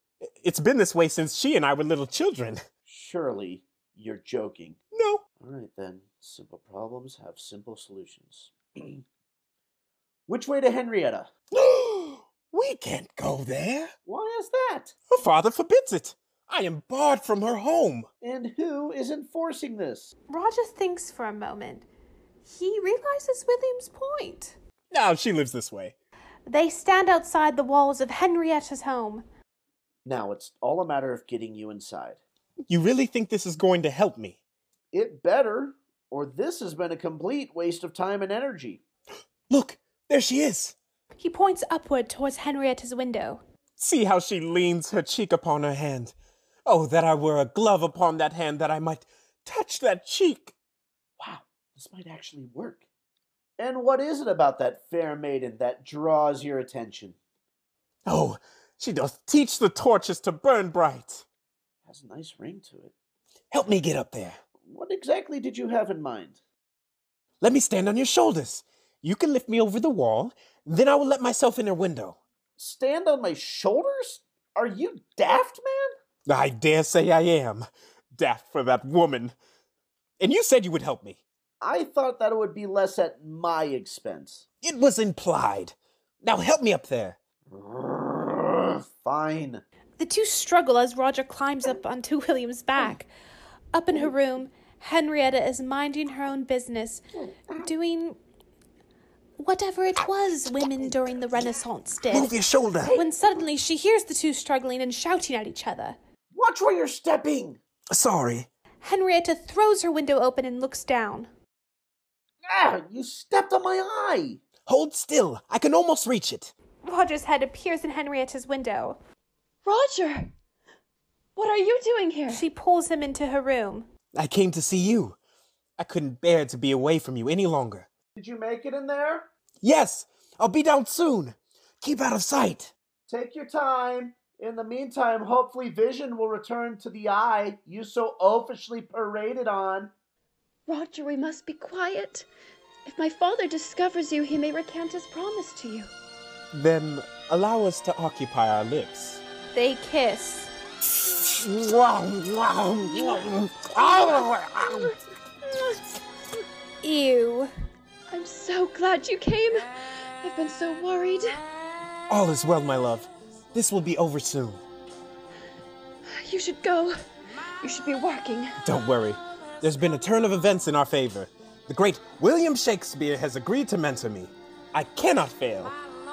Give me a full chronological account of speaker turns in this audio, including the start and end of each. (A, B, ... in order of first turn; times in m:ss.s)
0:00.2-0:02.6 A
0:02.8-0:04.8 B
0:04.9-0:05.2 A
0:05.4-0:09.0 B
0:10.3-0:11.3 B
0:11.5-0:13.9 A
0:14.0-0:14.9 B
0:15.1-0:18.1 A
0:18.2-0:20.1 B
0:20.3-0:21.8 C
0:22.4-0:24.6 C
0:24.9-0:25.9 A
0:26.5-0:29.2 C
0:30.0-0:32.2 B
0:32.7-0:34.4 A
0:34.9-0:38.8 B
0:39.5-0:40.8 A
0:41.2-0:43.4 C
0:43.8-0:50.5 A
0:51.2-0:52.8 B
0:53.6-0:57.2 B
0:58.0-1:01.2 A
1:01.8-1:02.9 B
1:03.5-1:04.4 A
1:04.6-1:06.4 B
1:07.4-1:12.2 A
1:12.6-1:15.9 B
1:16.2-1:19.3 A
1:20.2-1:21.2 A
1:21.6-1:24.4 B
1:24.6-1:27.2 A
1:27.5-1:29.6 B
1:30.0-1:33.1 C
1:33.7-1:37.0 C
1:37.1-1:37.7 B
1:37.6-1:38.2 C
1:39.4-1:42.4 C
1:42.1-1:43.0 A
1:42.9-1:46.0 C
1:46.3-1:47.6 B
1:47.9-1:48.5 A
1:48.8-1:51.3 C
1:52.4-1:54.4 B
1:54.6-1:56.5 A
1:56.8-1:59.0 C
1:59.6-2:00.3 D
2:01.4-2:02.4 D
2:02.3-2:03.9 C
2:04.1-2:05.2 A
2:05.8-2:07.9 A
2:08.1-2:09.3 B
2:09.6-2:12.7 A
2:13.1-2:19.9 B
2:20.6-2:22.3 D
2:22.8-2:25.9 D
2:26.5-2:29.2 A
2:29.5-2:30.5 C
2:31.3-2:34.9 A
2:36.8-2:37.5 C
2:38.1-2:41.4 D
2:42.1-2:44.6 A
2:46.2-2:47.0 D
2:47.6-2:48.6 D
2:48.6-2:55.7 A